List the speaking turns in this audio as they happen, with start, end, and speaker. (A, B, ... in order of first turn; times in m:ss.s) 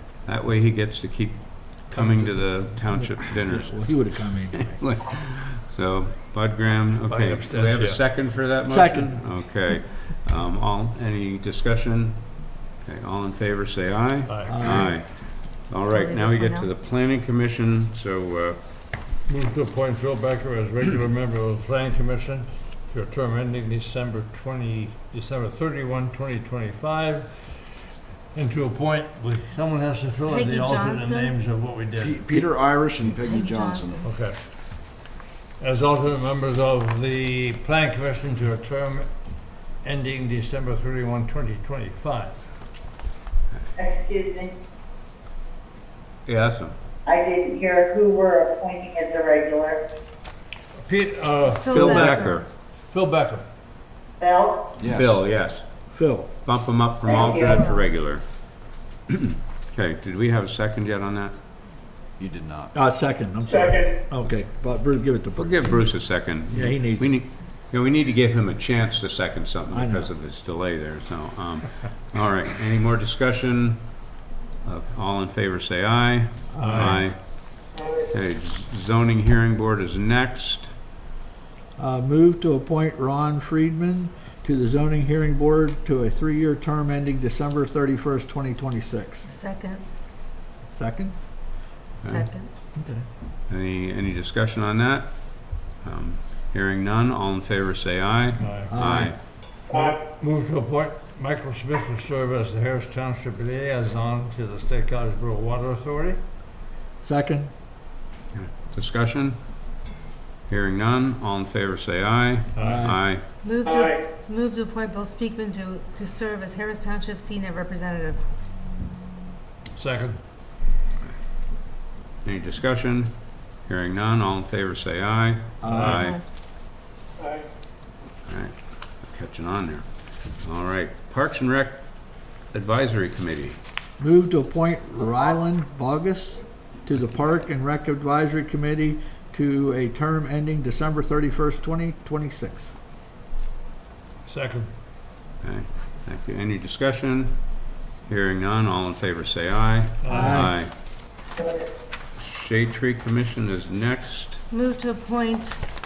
0:00.3-0:12.3 A
0:02.0-0:02.3 B
0:02.8-0:04.9 C
0:07.0-0:08.0 B
0:08.7-0:09.2 C
0:12.8-0:18.6 A
0:14.3-0:14.9 B
0:14.5-0:15.0 C
0:15.9-0:16.7 D
0:19.3-0:27.6 B
0:28.3-0:32.4 B
0:30.3-0:31.4 D
0:32.0-0:34.0 E
0:33.0-0:34.0 D
0:34.0-0:34.4 B
0:35.6-0:39.2 B
0:39.8-0:42.4 B
0:43.8-0:44.5 F
0:46.3-0:46.8 A
0:47.1-0:49.8 F
0:50.8-0:52.1 B
0:51.5-0:52.4 D
0:51.6-0:52.5 A
0:51.8-0:52.2 C
0:52.9-0:53.4 B
0:54.2-0:54.7 F
0:54.8-0:55.2 E
0:54.9-0:55.6 A
0:55.9-0:56.3 C
0:56.4-0:58.4 A
0:57.1-0:57.7 F
0:57.1-0:57.9 D
0:59.1-1:01.4 A
1:02.2-1:02.7 E
1:02.7-1:07.2 C
1:05.4-1:13.9 A
1:09.7-1:10.1 C
1:14.6-1:17.2 A
1:16.5-1:17.1 C
1:16.6-1:17.0 B
1:18.0-1:20.7 A
1:21.8-1:29.3 C
1:29.3-1:29.8 D
1:30.7-1:31.2 C
1:32.0-1:32.3 A
1:32.0-1:32.5 D
1:32.7-1:33.0 C
1:33.5-1:39.2 A
1:38.4-1:38.9 B
1:38.7-1:39.2 C
1:39.7-1:46.2 B
1:47.0-1:47.5 C
1:48.4-1:49.4 A
1:50.5-1:53.2 A
1:52.6-1:52.9 B
1:52.6-1:53.0 C
1:53.4-1:58.2 D
1:59.8-2:00.2 B
2:02.2-2:06.2 A
2:05.6-2:06.1 C
2:05.7-2:06.0 B
2:05.9-2:06.2 D
2:08.3-2:13.6 A
2:14.0-2:22.7 C
2:24.3-2:24.7 B
2:25.4-2:27.4 A
2:28.0-2:30.7 A
2:30.0-2:30.4 B
2:30.1-2:30.6 C
2:32.2-2:34.4 A
2:34.5-2:35.6 D